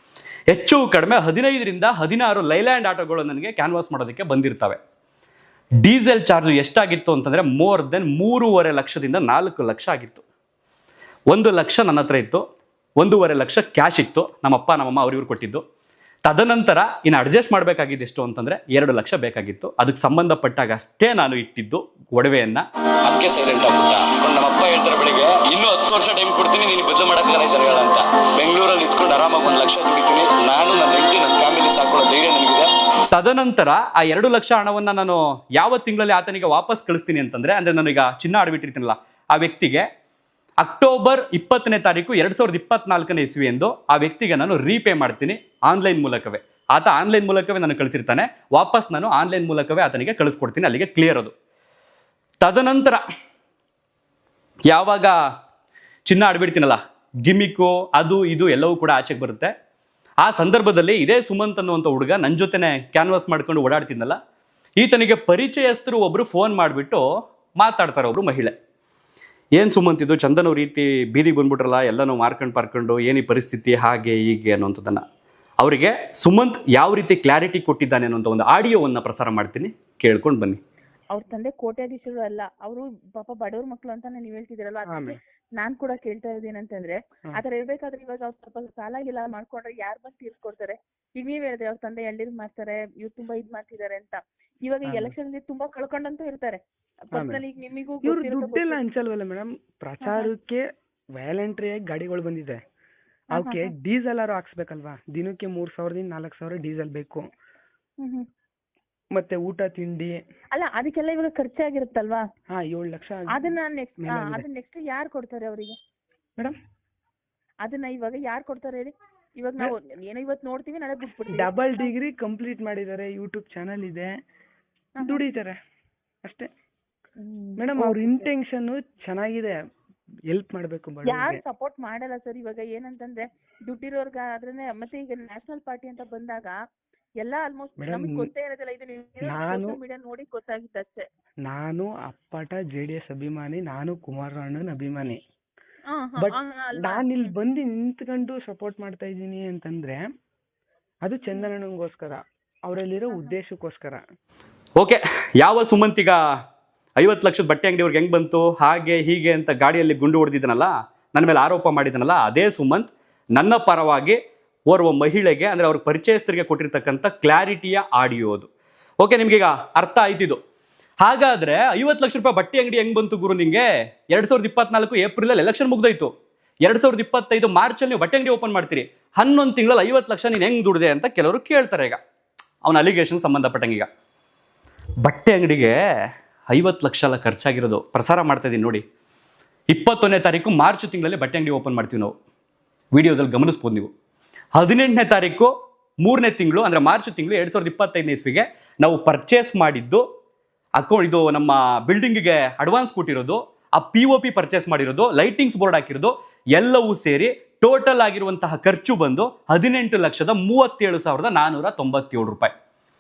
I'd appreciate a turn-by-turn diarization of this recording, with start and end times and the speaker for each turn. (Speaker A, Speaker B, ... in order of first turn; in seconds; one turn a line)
Speaker A: 0.5-4.8
Speaker A: 5.8-10.2
Speaker A: 11.3-12.4
Speaker A: 13.0-15.6
Speaker A: 16.3-39.9
Speaker A: 40.6-51.3
Speaker A: 52.4-53.0
Speaker A: 54.7-55.2
Speaker A: 56.1-59.5
Speaker A: 60.2-64.2
Speaker A: 64.8-67.0
Speaker A: 67.6-68.5
Speaker A: 69.6-75.0
Speaker A: 75.6-80.6
Speaker B: 81.1-96.6
Speaker C: 84.9-85.2
Speaker C: 94.9-95.1
Speaker B: 97.1-98.8
Speaker C: 97.1-97.4
Speaker C: 98.0-102.6
Speaker B: 100.0-100.3
Speaker B: 103.3-103.7
Speaker C: 103.3-107.3
Speaker B: 108.0-108.3
Speaker C: 109.2-110.2
Speaker B: 110.5-112.2
Speaker C: 112.5-114.5
Speaker B: 113.3-115.8
Speaker B: 117.6-121.9
Speaker C: 121.3-124.1
Speaker C: 125.0-125.6
Speaker C: 126.2-126.5
Speaker B: 127.2-128.3
Speaker C: 127.6-129.6
Speaker C: 130.3-131.4
Speaker B: 131.1-136.6
Speaker B: 137.2-141.1
Speaker C: 137.8-138.3
Speaker C: 139.3-139.8
Speaker C: 141.4-145.2
Speaker B: 145.9-147.1
Speaker C: 146.2-150.1
Speaker C: 151.0-154.0
Speaker A: 154.8-156.2
Speaker A: 157.0-168.5
Speaker A: 169.0-170.4
Speaker A: 171.0-176.1
Speaker A: 176.6-182.0
Speaker A: 182.6-183.9
Speaker A: 185.0-185.8
Speaker A: 186.5-188.8
Speaker A: 189.7-192.1
Speaker A: 192.9-193.9
Speaker A: 194.6-195.5
Speaker A: 196.0-200.0
Speaker A: 200.8-212.5